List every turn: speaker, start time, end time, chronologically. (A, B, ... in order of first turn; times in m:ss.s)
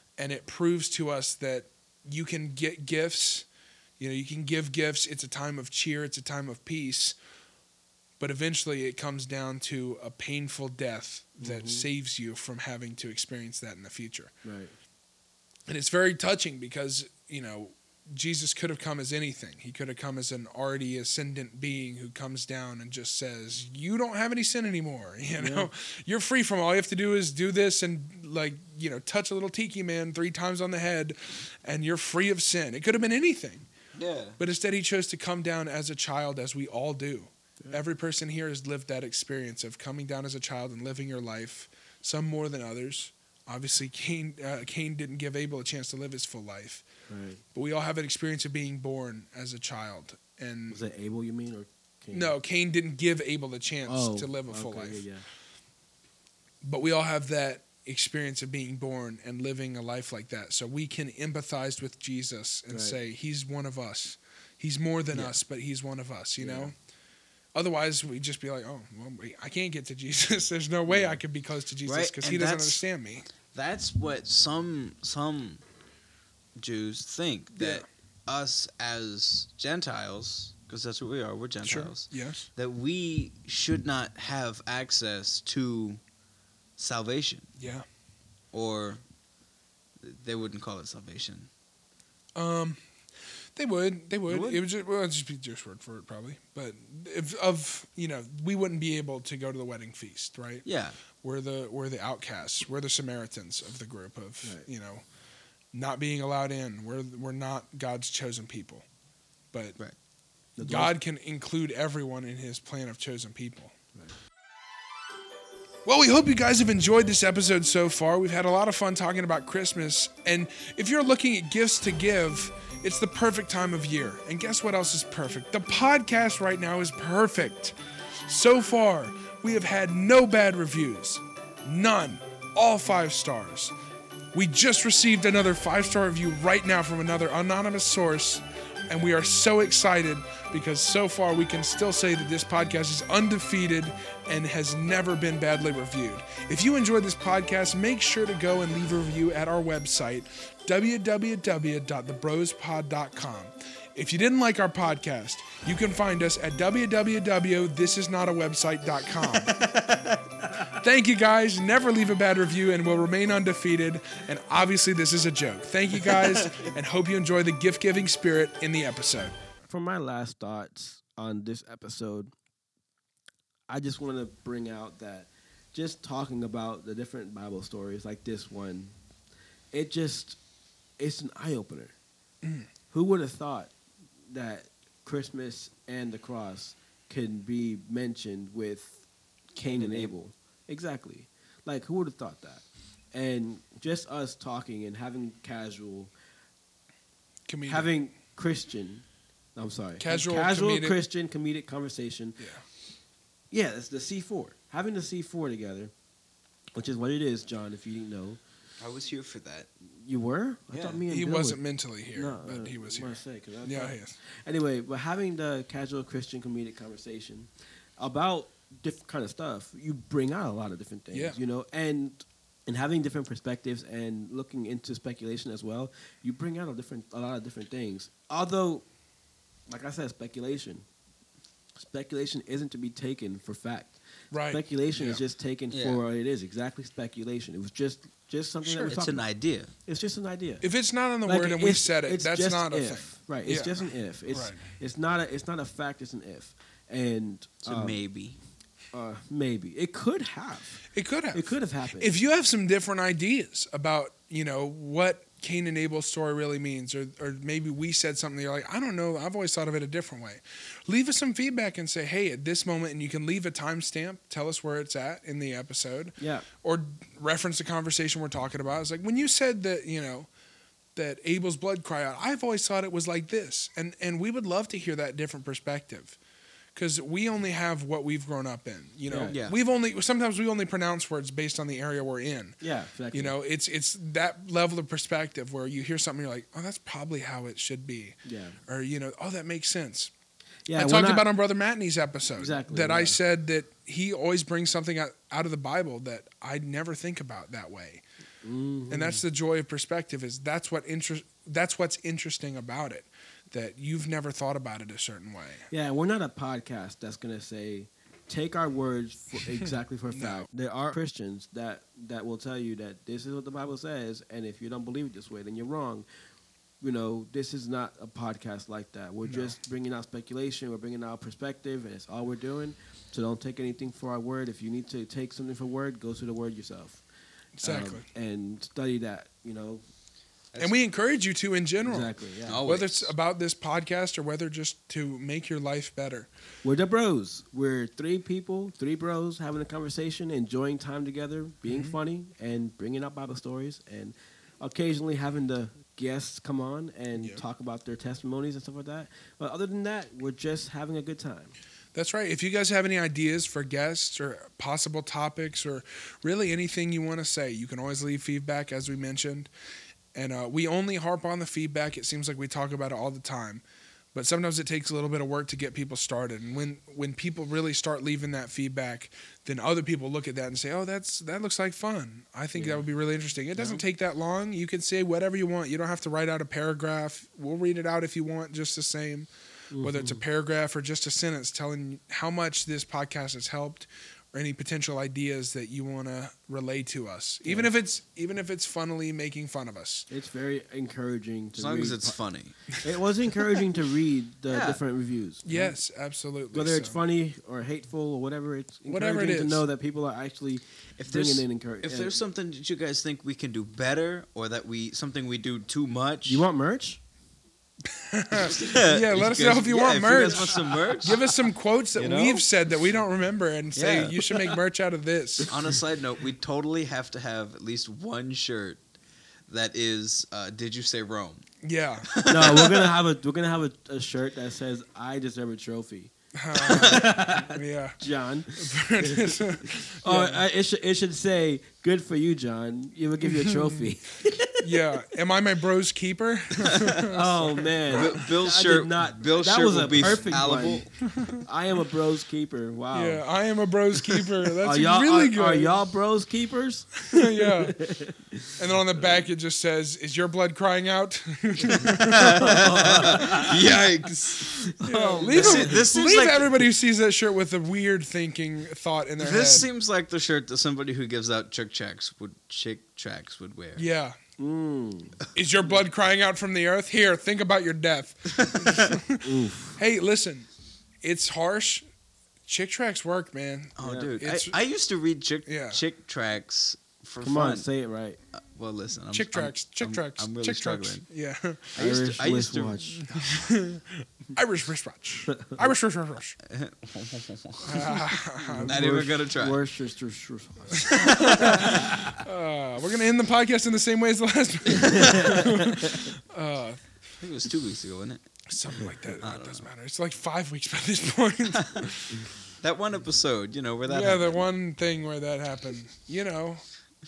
0:00.2-0:03.5 A
0:04.0-0:07.2 A
0:08.2-0:14.4 A
0:11.4-0:11.9 B
0:14.4-0:14.7 B
0:15.7-0:33.7 A
0:25.4-0:25.7 B
0:34.0-0:34.4 C
0:34.4-0:46.9 A
0:47.1-0:47.4 B
0:47.5-0:50.8 A
0:50.7-0:52.4 B
0:52.1-0:55.0 A
0:53.9-0:55.3 B
0:56.6-1:06.8 A
1:02.7-1:03.0 B
1:06.4-1:06.7 B
1:07.6-1:13.3 A
1:10.9-1:11.2 B
1:11.8-1:12.8 C
1:13.5-1:15.6 C
1:16.6-1:26.0 C
1:17.6-1:17.9 A
1:21.6-1:22.5 A
1:26.8-1:27.5 C
1:27.6-1:27.8 A
1:28.5-1:29.0 C
1:30.0-1:31.5 C
1:32.4-1:32.8 A
1:33.6-1:40.6 A
1:34.3-1:34.6 C
1:40.6-1:41.0 C
1:41.2-1:45.0 A
1:45.7-1:48.8 A
1:50.6-1:50.9 B
1:50.6-1:53.8 A
1:55.8-2:07.8 A
2:08.3-2:13.7 A
2:14.3-2:39.5 A
2:39.5-2:40.7 C
2:40.7-2:49.4 A
2:46.1-2:46.5 C
2:49.7-2:52.3 B
2:53.7-2:59.0 B
2:59.7-3:00.4 B
3:01.0-3:01.9 B
3:02.9-3:03.7 B
3:04.3-3:09.0 B
3:09.6-3:16.1 B
3:09.6-3:10.1 C
3:17.5-3:17.9 A
3:17.7-3:22.4 B
3:20.0-3:21.0 A
3:23.5-3:25.9 B
3:26.8-3:28.4 B
3:28.8-3:29.7 C
3:29.9-3:31.6 B
3:30.7-3:31.0 C
3:31.1-3:33.1 A
3:32.1-3:48.8 B
3:33.6-3:34.2 A
3:41.1-3:41.4 A
3:49.7-3:50.8 B
3:51.8-4:00.6 B
3:54.3-3:55.2 A
3:55.7-3:56.0 C
3:58.6-3:58.9 A
3:58.9-3:59.7 C
4:00.6-4:04.6 A
4:01.2-4:08.0 B
4:07.6-4:08.4 C
4:08.9-4:12.1 B
4:10.9-4:30.3 A
4:26.2-4:26.5 B
4:31.0-4:36.2 A
4:36.8-4:42.6 A
4:39.1-4:39.4 B
4:39.3-4:39.6 C
4:42.6-4:43.3 B
4:43.1-4:50.1 A
4:48.2-4:48.6 B
4:50.7-4:51.3 B
4:50.7-4:58.0 A
4:52.4-4:53.2 B
4:58.4-4:59.2 B
4:58.9-5:05.7 A
5:05.7-5:16.0 B
5:09.6-5:10.5 A
5:16.8-5:27.0 B
5:19.3-5:19.6 A
5:27.6-5:28.0 A
5:27.6-5:29.8 B
5:30.6-5:32.1 A
5:31.8-5:32.6 B
5:32.5-5:33.1 C
5:32.6-5:36.3 A
5:36.6-5:51.6 B
5:41.7-5:42.0 A
5:47.2-5:47.4 A
5:51.9-5:59.5 A
6:00.1-6:03.6 A
6:04.1-6:30.1 A
6:12.5-6:12.8 B
6:19.7-6:20.2 B
6:27.4-6:27.7 B
6:30.1-6:32.2 B
6:31.6-6:32.8 C
6:32.7-6:35.8 B
6:34.5-6:34.8 C
6:35.4-6:37.0 A
6:36.5-6:42.2 B
6:38.9-6:39.6 A
6:41.0-6:46.4 C
6:46.3-6:47.0 B
6:47.9-6:55.5 A
6:48.4-6:51.4 C
6:50.1-6:50.9 B
6:52.0-6:52.4 C
6:53.8-6:54.2 C
6:55.5-6:58.8 C
6:59.5-7:01.4 C
7:01.6-7:02.1 A
7:02.1-7:02.9 C
7:02.2-7:15.0 B
7:06.4-7:08.0 A
7:08.6-7:10.4 A
7:13.2-7:13.9 A
7:14.6-7:18.1 A
7:16.6-7:17.0 C
7:17.0-7:20.9 B
7:17.9-7:21.0 C
7:21.1-7:21.4 A
7:21.4-7:23.2 B
7:22.9-7:25.7 A
7:24.6-7:28.6 B
7:27.1-7:27.8 A
7:28.6-7:32.6 A
7:32.0-7:34.7 C
7:32.4-7:33.8 B
7:34.4-7:35.8 B
7:34.8-7:39.7 A
7:35.3-7:36.6 C
7:39.2-7:43.8 C
7:43.8-7:44.2 A
7:44.4-7:45.2 B
7:45.3-7:49.2 A
7:48.3-7:49.0 C
7:49.2-7:49.8 B
7:49.8-7:50.5 A
7:51.0-7:51.8 A
7:52.5-7:54.6 A
7:53.8-7:57.6 C
7:53.8-7:54.1 B
7:55.5-7:55.8 A
7:57.2-7:58.2 B
7:58.4-8:01.0 C
7:59.1-8:01.8 A
8:01.8-8:03.0 C
8:01.8-8:03.1 B
8:03.0-8:06.4 A
8:06.5-8:08.0 C
8:07.6-8:08.8 A
8:08.5-8:12.2 B
8:08.6-8:09.6 C
8:10.9-8:12.0 C
8:10.9-8:16.8 A
8:14.7-8:16.1 B
8:17.2-8:18.2 C
8:18.5-8:22.3 A
8:19.2-8:19.7 C
8:21.6-8:21.9 C
8:22.6-8:24.4 C
8:23.9-8:26.6 A